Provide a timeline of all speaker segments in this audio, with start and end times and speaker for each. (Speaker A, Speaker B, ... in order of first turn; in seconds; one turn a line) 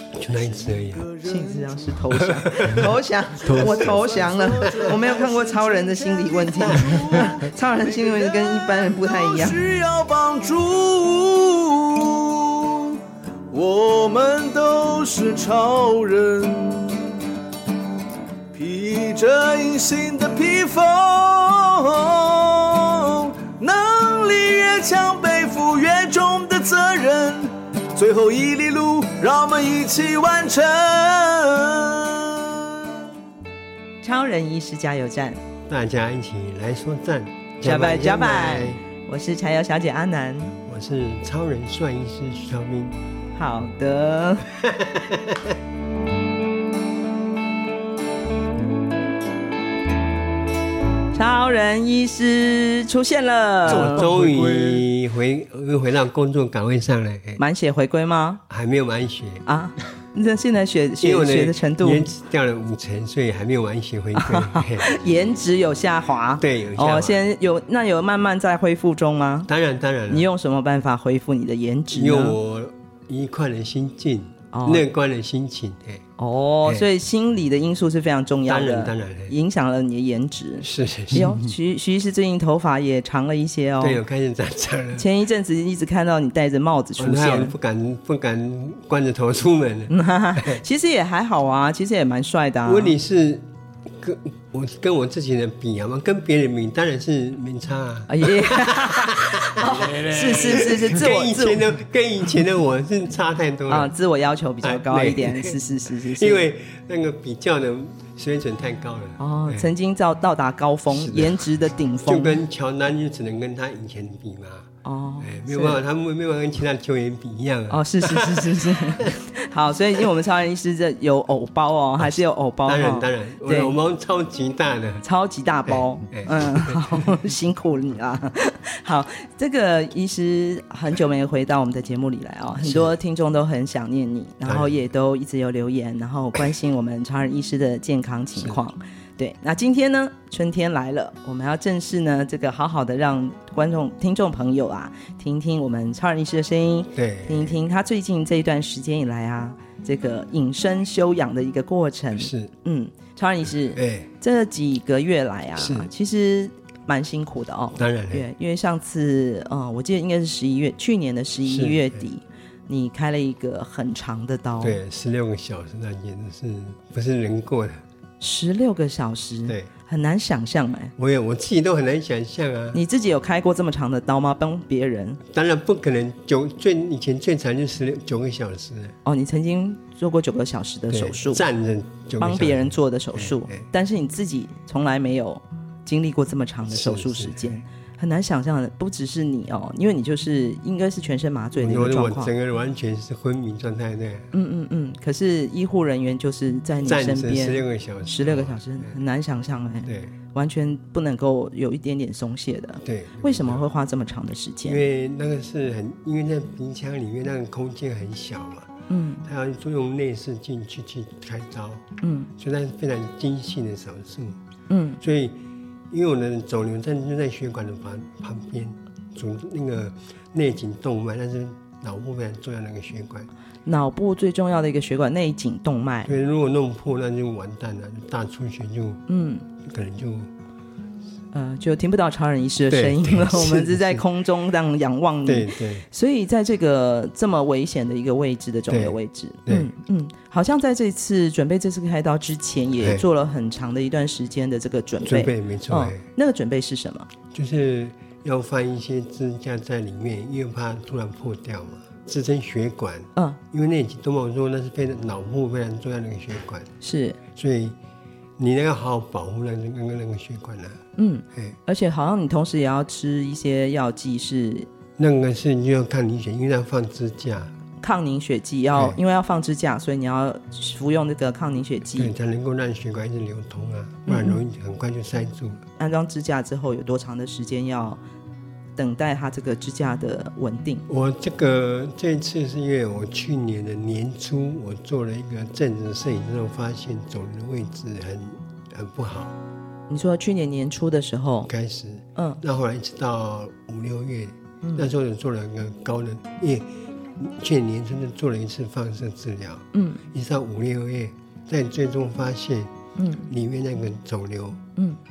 Speaker A: 0.1-1.1
Speaker B: 0.3-17.1
Speaker C: 1.2-9.6
Speaker A: 2.0-4.0
Speaker A: 6.6-7.4
Speaker B: 18.5-33.1
Speaker C: 34.0-35.4
Speaker A: 35.7-38.8
Speaker C: 37.6-40.5
Speaker A: 40.6-43.0
Speaker C: 43.3-44.5
Speaker A: 44.5-45.6
Speaker C: 51.1-54.1
Speaker A: 53.6-57.4
Speaker B: 53.6-54.9
Speaker C: 57.4-58.4
Speaker A: 58.5-59.5
Speaker C: 59.5-62.1
Speaker A: 61.0-65.0
Speaker C: 64.2-69.5
Speaker A: 66.4-67.2
Speaker A: 69.5-70.3
Speaker C: 70.1-72.4
Speaker A: 71.9-76.0
Speaker C: 74.5-74.8
Speaker C: 76.2-84.0
Speaker A: 76.6-76.9
Speaker A: 78.5-79.3
Speaker A: 80.6-81.5
Speaker A: 83.8-85.1
Speaker C: 85.0-87.5
Speaker A: 87.0-90.6
Speaker C: 89.9-93.0
Speaker A: 92.6-103.9
Speaker C: 98.1-101.7
Speaker B: 100.0-100.3
Speaker C: 103.7-106.5
Speaker A: 104.6-109.7
Speaker C: 109.2-112.4
Speaker A: 110.9-111.5
Speaker A: 112.0-119.1
Speaker C: 114.8-115.8
Speaker C: 117.7-123.8
Speaker A: 122.0-125.0
Speaker C: 125.0-164.8
Speaker A: 125.7-127.2
Speaker A: 132.6-132.9
Speaker A: 134.4-134.8
Speaker A: 138.3-138.6
Speaker A: 146.9-147.6
Speaker A: 152.2-152.5
Speaker A: 153.7-154.1
Speaker A: 155.6-155.9
Speaker A: 157.8-158.2
Speaker A: 161.4-162.0
Speaker A: 164.6-167.8
Speaker C: 168.2-170.9
Speaker A: 171.0-172.8
Speaker C: 172.7-175.2
Speaker A: 175.2-178.9
Speaker C: 179.0-181.4
Speaker A: 180.9-183.7
Speaker C: 182.2-192.3
Speaker A: 186.6-187.5
Speaker A: 191.6-194.3
Speaker C: 194.3-204.8
Speaker A: 196.8-198.9
Speaker A: 199.8-200.1
Speaker A: 202.8-203.6
Speaker A: 204.6-208.7
Speaker C: 208.9-209.2
Speaker A: 209.2-211.8
Speaker C: 212.0-212.3
Speaker A: 212.3-214.4
Speaker C: 214.7-215.0
Speaker A: 215.0-223.3
Speaker C: 223.7-226.1
Speaker A: 226.1-229.0
Speaker C: 229.1-229.4
Speaker A: 229.6-230.3
Speaker C: 231.3-247.1
Speaker A: 232.7-234.0
Speaker A: 235.2-235.9
Speaker A: 238.7-239.7
Speaker A: 245.0-246.0
Speaker A: 247.3-256.7
Speaker C: 256.8-257.2
Speaker A: 257.3-257.8
Speaker A: 258.4-260.8
Speaker C: 261.0-264.7
Speaker A: 265.0-267.5
Speaker C: 267.8-272.1
Speaker A: 268.7-269.0
Speaker A: 271.9-275.6
Speaker C: 274.1-274.4
Speaker C: 275.8-278.0
Speaker C: 278.8-280.8
Speaker A: 280.9-289.4
Speaker C: 289.9-291.5
Speaker A: 291.4-302.7
Speaker C: 292.1-292.4
Speaker C: 299.7-300.0
Speaker C: 303.0-303.3
Speaker A: 303.3-304.6